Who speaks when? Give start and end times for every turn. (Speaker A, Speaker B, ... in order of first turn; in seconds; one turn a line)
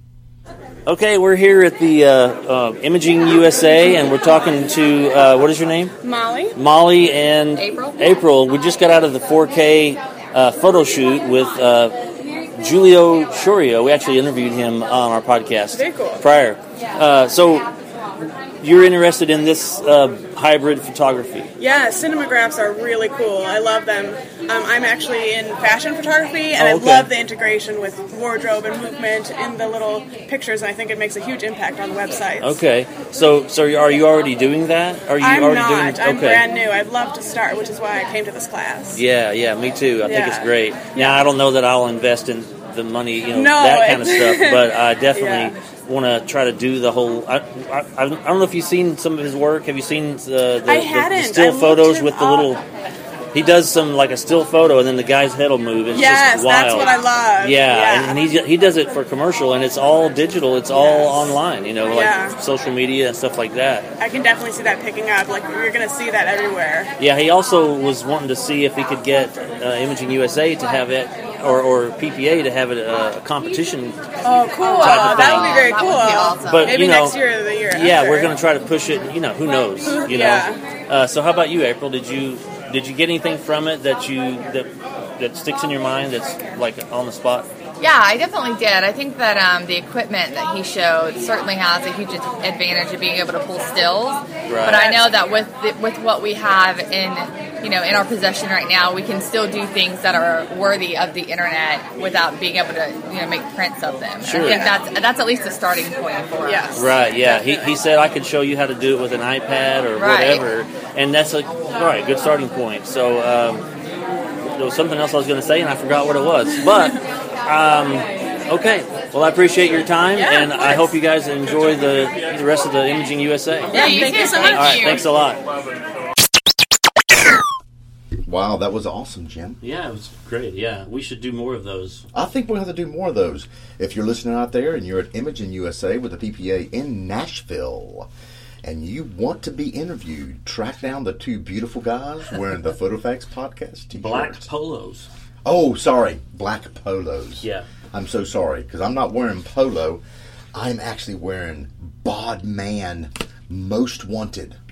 Speaker A: 0.8-5.9
Speaker B: 6.0-6.5
Speaker A: 6.5-12.0
Speaker C: 7.5-8.0
Speaker A: 12.6-17.7
Speaker B: 15.7-16.3
Speaker A: 18.6-21.5
Speaker B: 21.6-32.6
Speaker A: 26.5-27.1
Speaker A: 32.4-36.5
Speaker B: 35.2-39.0
Speaker A: 38.9-52.6
Speaker B: 40.0-41.2
Speaker B: 43.3-45.5
Speaker B: 50.6-52.5
Speaker A: 53.3-63.9
Speaker B: 55.9-58.2
Speaker B: 60.7-61.3
Speaker B: 61.9-62.4
Speaker B: 64.0-66.9
Speaker A: 67.0-74.0
Speaker B: 74.2-78.4
Speaker C: 74.5-76.7
Speaker A: 74.7-75.6
Speaker A: 76.3-87.5
Speaker B: 79.8-80.6
Speaker C: 87.8-107.4
Speaker A: 94.5-94.9
Speaker A: 104.2-104.7
Speaker B: 104.4-104.7
Speaker B: 106.5-107.7
Speaker A: 106.8-113.7
Speaker C: 110.0-110.4
Speaker A: 114.4-125.4
Speaker B: 120.3-120.8
Speaker C: 123.7-125.0
Speaker B: 123.8-125.0
Speaker D: 128.2-129.6
Speaker A: 129.6-132.1
Speaker D: 132.1-138.1
Speaker D: 138.6-144.5
Speaker A: 143.9-145.1
Speaker D: 145.4-150.0
Speaker D: 150.5-154.6